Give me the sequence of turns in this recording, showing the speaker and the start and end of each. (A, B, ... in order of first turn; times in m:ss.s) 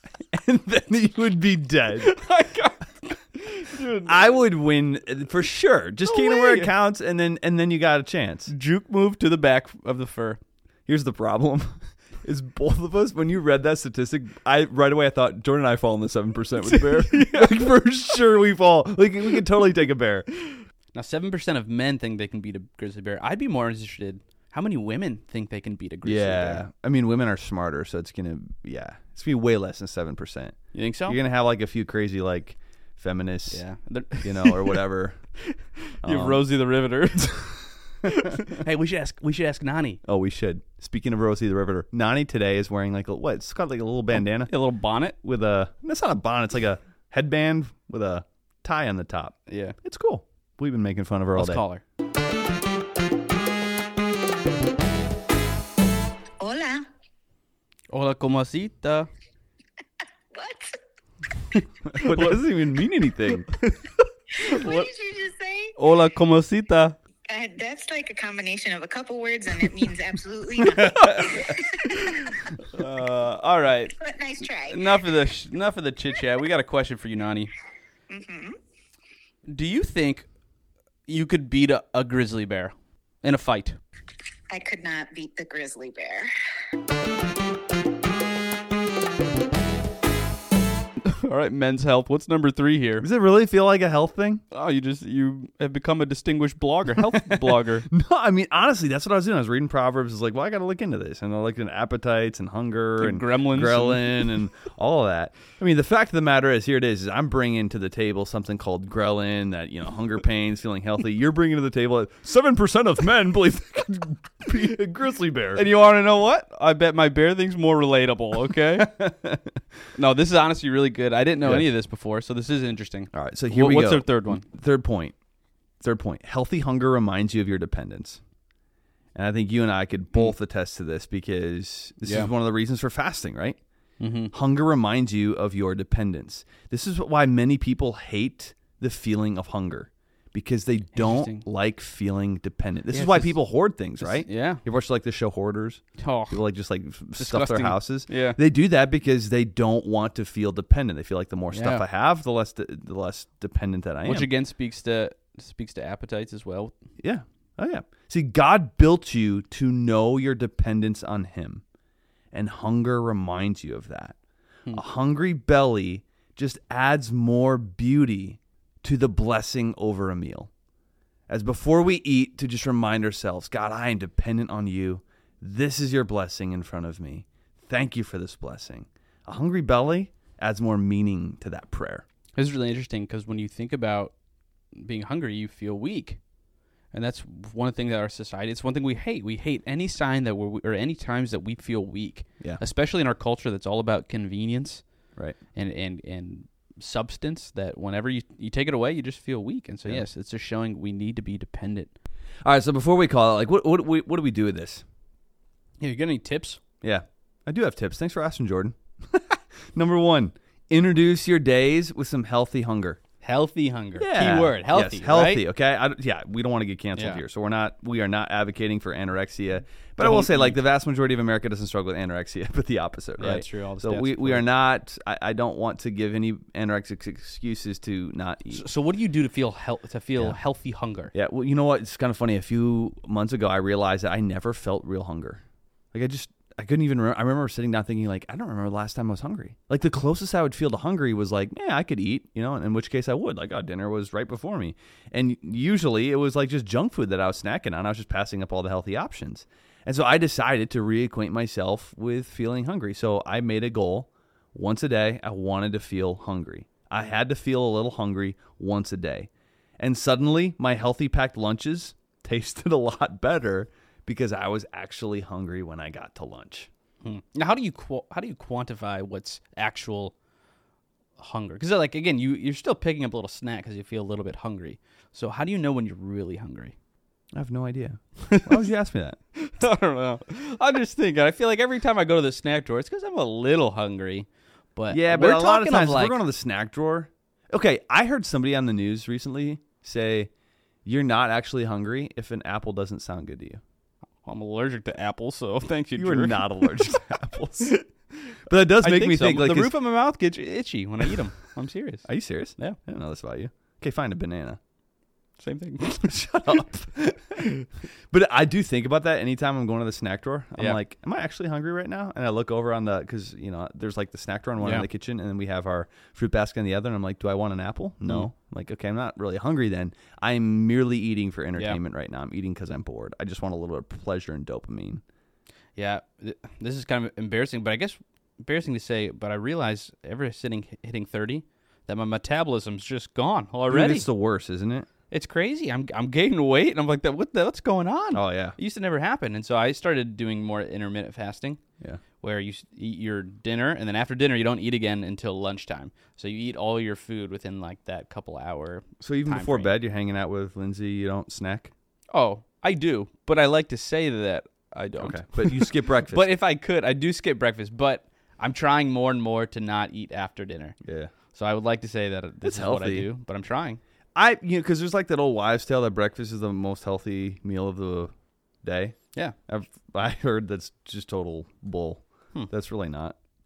0:00.3-0:02.1 A
0:02.0-0:04.2 B
0:04.0-0:08.5 A
0:06.0-0:06.7 B
0:08.5-0:10.4 B
0:10.9-0:20.3 A
0:16.6-0:17.6 B
0:20.5-0:26.6 B
0:26.0-0:30.6 A
0:30.7-0:31.2 B
0:31.1-0:33.6 A
0:33.5-0:34.8 B
0:34.2-0:35.2 A
0:35.4-0:40.0 B
0:36.0-0:36.4 A
0:38.0-0:38.3 A
0:40.0-0:44.5 A
0:44.3-0:45.2 B
0:45.2-0:51.6 A
0:49.5-0:49.8 B
0:51.3-0:51.8 B
0:56.4-0:56.9 C
0:57.9-0:59.1 B
1:00.3-1:00.8 C
1:01.9-1:03.5 A
1:02.0-1:02.4 B
1:03.5-1:04.9 B
1:04.4-1:05.7 C
1:05.8-1:07.0 B
1:07.3-1:12.3 C
1:10.6-1:17.5 B
1:14.0-1:15.0 C
1:18.1-1:18.6 C
1:19.5-1:20.3 B
1:21.1-1:23.8 B
1:24.5-1:26.3 C
1:31.0-1:33.1 B
1:33.0-1:34.4 A
1:34.5-1:37.9 B
1:37.0-1:55.6 A
1:43.0-1:44.3 B
1:55.5-1:58.9 B
1:58.8-1:59.6 A
1:59.9-2:04.4 B
2:03.1-2:05.1 A
2:05.8-2:08.2 A
2:09.1-2:13.6 A
2:12.0-2:12.3 B
2:14.0-2:14.3 B
2:14.3-2:34.3 A
2:20.9-2:21.4 B
2:22.9-2:23.4 B
2:24.0-2:24.6 B
2:26.0-2:26.4 B
2:27.2-2:28.4 B
2:31.5-2:31.8 B
2:34.0-2:36.7 B
2:37.0-2:41.6 A
2:42.3-2:44.2 A
2:44.7-2:50.5 A
2:51.3-3:02.0 A
3:02.4-3:04.1 B
3:04.7-3:06.2 B
3:06.9-3:14.8 B
3:15.5-3:21.9 B
3:22.4-3:24.8 A
3:25.8-3:26.6 B
3:26.8-3:33.0 A
3:33.2-3:35.4 B
3:34.0-3:48.6 A
3:37.0-3:37.2 B
3:40.0-3:40.6 B
3:43.2-3:44.5 B
3:48.5-3:51.1 B
3:51.1-3:55.4 A
3:55.9-4:26.7 A
4:27.0-4:30.1 B
4:31.2-4:36.7 B
4:37.3-4:39.2 A
4:38.2-4:38.6 B
4:39.4-4:46.2 B
4:44.9-4:50.3 A
4:50.8-4:53.6 A
4:54.2-4:57.0 B
4:56.0-4:57.7 A
4:57.6-5:02.8 B
4:58.5-4:59.7 A
5:02.0-5:04.6 A
5:05.4-5:06.6 B
5:06.3-5:07.5 A
5:08.1-5:25.0 A
5:14.6-5:14.9 B
5:25.8-5:34.1 B
5:33.7-5:34.9 A
5:35.1-5:41.6 B
5:38.1-5:38.6 A
5:42.2-5:49.7 B
5:49.0-5:51.7 A
5:52.1-6:00.8 B
5:55.0-5:56.2 A
6:00.8-6:01.1 A
6:01.3-6:03.8 B
6:02.4-6:03.1 A
6:04.1-6:08.1 A
6:08.6-6:09.0 A
6:09.5-6:13.2 A